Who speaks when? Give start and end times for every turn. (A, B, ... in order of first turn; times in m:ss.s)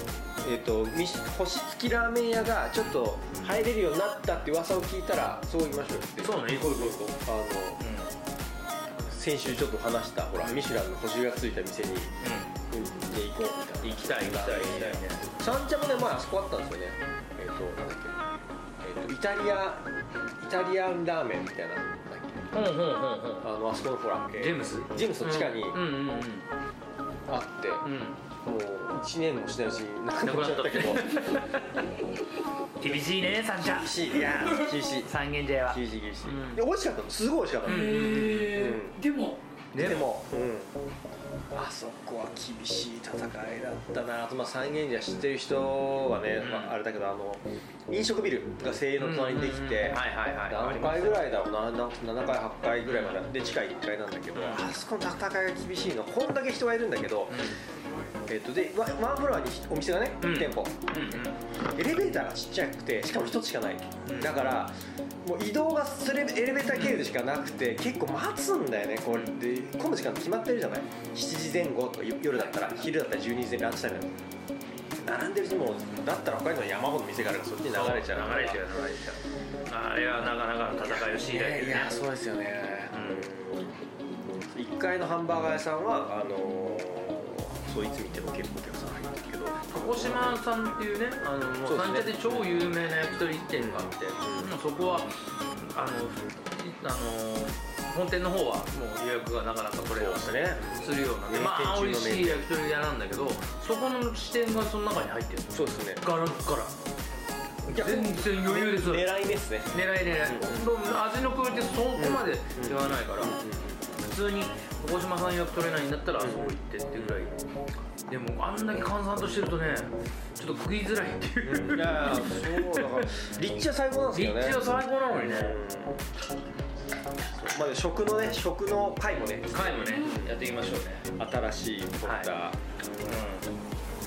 0:00.4-0:07.8 A
0:06.2-0:07.2 B
0:07.8-0:08.1 B
0:08.9-0:12.1 A
0:12.2-0:12.6 B
0:12.7-0:18.2 A
0:13.8-0:15.2 B
0:18.8-0:19.9 A
0:20.4-0:22.5 A
0:22.5-0:23.5 B
0:23.4-0:25.8 A
0:24.4-0:26.5 B
0:27.3-0:27.9 A
0:27.8-0:28.2 B
0:28.4-0:31.4 A
0:30.2-0:31.9 B
0:32.8-0:36.6 B
0:33.6-0:35.2 A
0:35.7-0:39.0 A
0:37.6-0:38.5 B
0:37.6-0:39.4 C
0:39.7-0:40.1 B
0:39.8-0:40.7 A
0:41.5-0:57.5 A
0:46.4-0:46.8 B
0:49.0-0:51.4 B
0:52.8-0:53.2 B
0:54.3-0:54.7 B
0:57.3-0:57.6 B
0:58.3-1:14.1 A
1:00.2-1:01.4 B
1:04.0-1:04.4 B
1:06.7-1:07.0 B
1:09.1-1:09.4 B
1:15.0-1:18.6 A
1:17.7-1:22.0 B
1:20.8-1:23.8 A
1:22.9-1:23.3 B
1:24.4-1:30.4 A
1:29.7-1:46.8 B
1:31.6-1:32.7 A
1:33.6-1:34.5 A
1:40.0-1:42.5 A
1:45.5-1:46.0 A
1:47.7-1:49.1 B
1:47.7-1:50.8 A
1:49.7-1:53.4 B
1:52.0-1:53.8 A
1:54.0-1:57.4 B
1:56.2-1:57.3 A
1:58.1-2:03.2 B
2:01.5-2:06.1 A
2:04.1-2:05.6 B
2:07.4-2:10.4 A
2:09.5-2:11.1 B
2:09.8-2:10.2 C
2:11.2-2:12.6 A
2:12.0-2:12.3 B
2:13.0-2:13.5 B